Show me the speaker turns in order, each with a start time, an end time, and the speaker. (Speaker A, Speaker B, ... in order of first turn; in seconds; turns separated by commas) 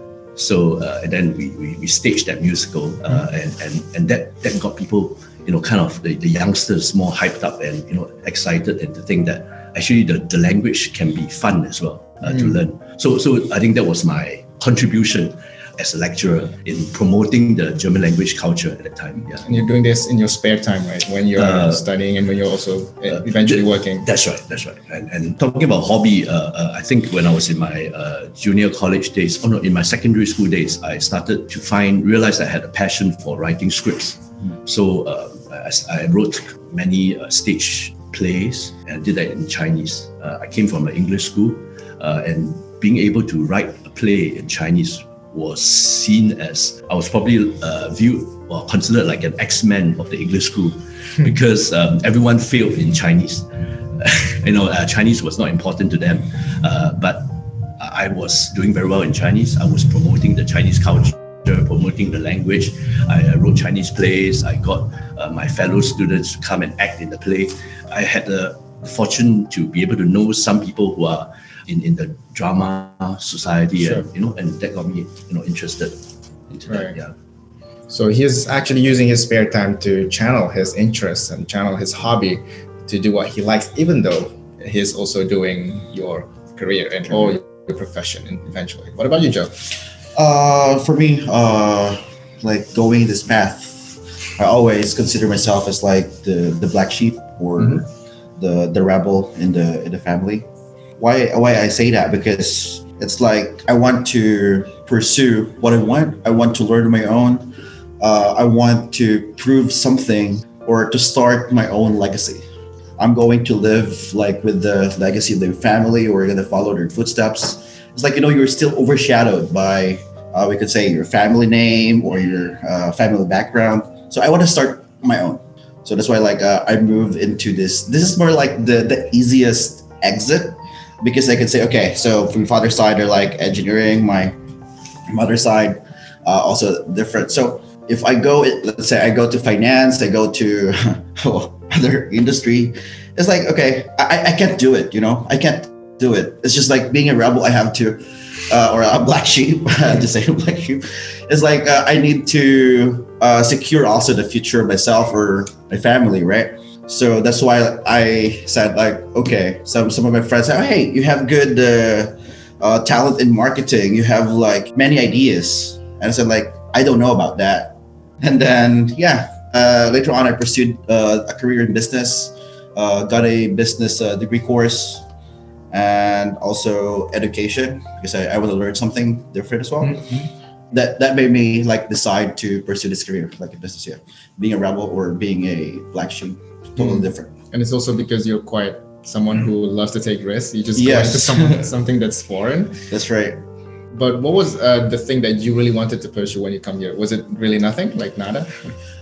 Speaker A: 0.4-19.6, Speaker B: 12.3-12.5, Speaker B: 19.3-24.1, Speaker A: 21.4-21.9, Speaker A: 23.1-77.1, Speaker B: 73.8-74.0, Speaker B: 76.7-76.9, Speaker B: 77.9-89.7, Speaker C: 87.1-87.4, Speaker C: 90.1-100.5, Speaker C: 101.0-112.5, Speaker C: 113.0-134.4, Speaker C: 135.1-175.1, Speaker C: 175.7-180.1, Speaker B: 179.8-180.3, Speaker C: 180.7-187.3, Speaker B: 186.8-192.9, Speaker C: 190.8-191.7, Speaker C: 192.9-193.4, Speaker B: 193.9-198.7